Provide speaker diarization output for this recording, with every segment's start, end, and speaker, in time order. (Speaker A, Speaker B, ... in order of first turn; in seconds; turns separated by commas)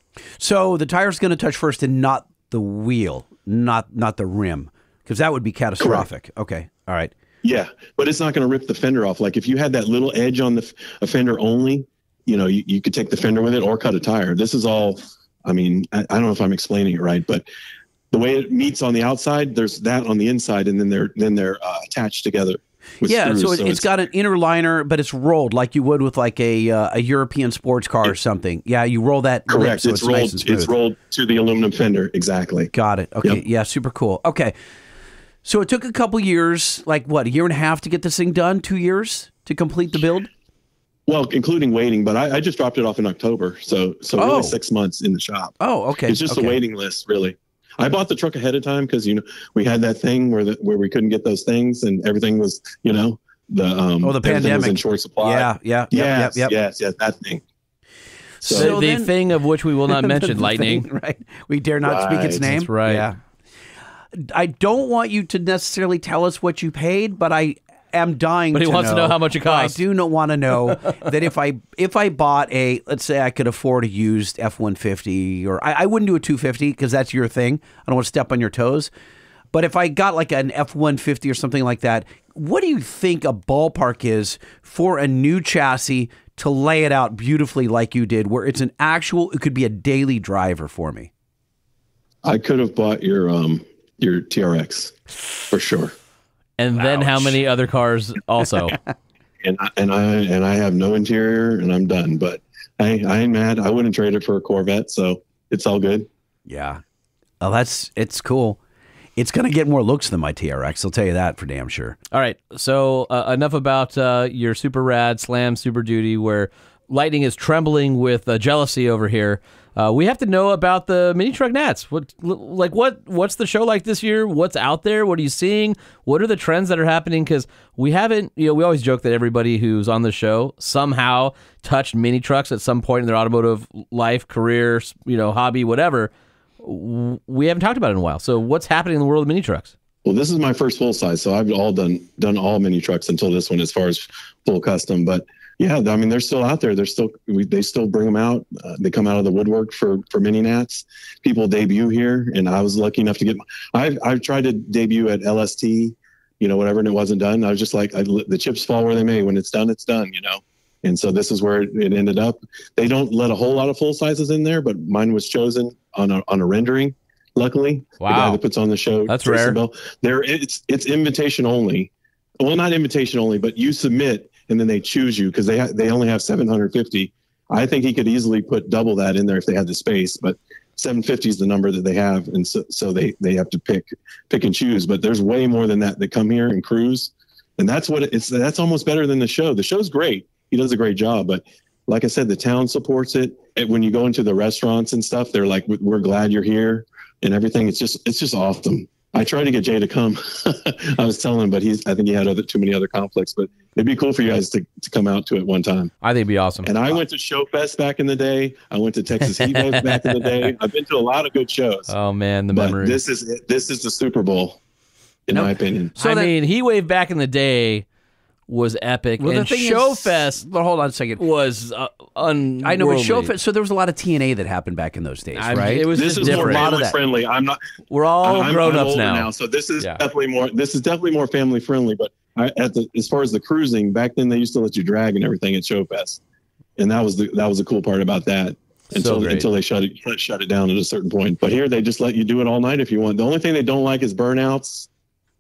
Speaker A: 0.4-7.1, Speaker B: 5.8-6.1, Speaker B: 7.4-17.4, Speaker B: 18.1-23.9, Speaker A: 23.0-30.7, Speaker B: 29.5-32.7, Speaker A: 32.7-34.5, Speaker A: 35.5-40.3, Speaker B: 41.1-57.4, Speaker A: 44.2-44.6, Speaker A: 45.6-46.6, Speaker A: 54.0-56.5, Speaker B: 58.4-58.8, Speaker A: 58.4-59.1, Speaker C: 58.5-60.9, Speaker A: 59.9-63.2, Speaker B: 61.8-62.4, Speaker C: 62.4-63.1, Speaker A: 64.1-78.9, Speaker C: 68.5-69.8, Speaker A: 79.5-91.1, Speaker B: 92.2-95.0, Speaker B: 95.5-95.9, Speaker C: 96.6-98.8, Speaker B: 96.8-97.4, Speaker B: 99.4-106.1, Speaker A: 106.5-106.8, Speaker A: 107.4-108.6, Speaker A: 109.2-112.0, Speaker C: 112.1-136.1, Speaker C: 136.6-139.7, Speaker B: 140.0-205.9, Speaker C: 168.0-168.4, Speaker C: 169.1-169.6, Speaker C: 206.0-206.7, Speaker B: 206.6-211.9, Speaker C: 209.4-210.5, Speaker C: 211.9-213.0, Speaker B: 212.5-214.6, Speaker B: 215.3-215.9, Speaker A: 215.3-216.3, Speaker C: 216.0-217.9, Speaker C: 218.5-220.4, Speaker A: 219.2-221.2, Speaker C: 221.2-223.3, Speaker A: 222.6-227.0, Speaker C: 225.4-226.7, Speaker B: 225.9-227.6, Speaker C: 227.9-229.3, Speaker B: 228.2-236.2, Speaker B: 236.8-244.9, Speaker C: 239.0-239.5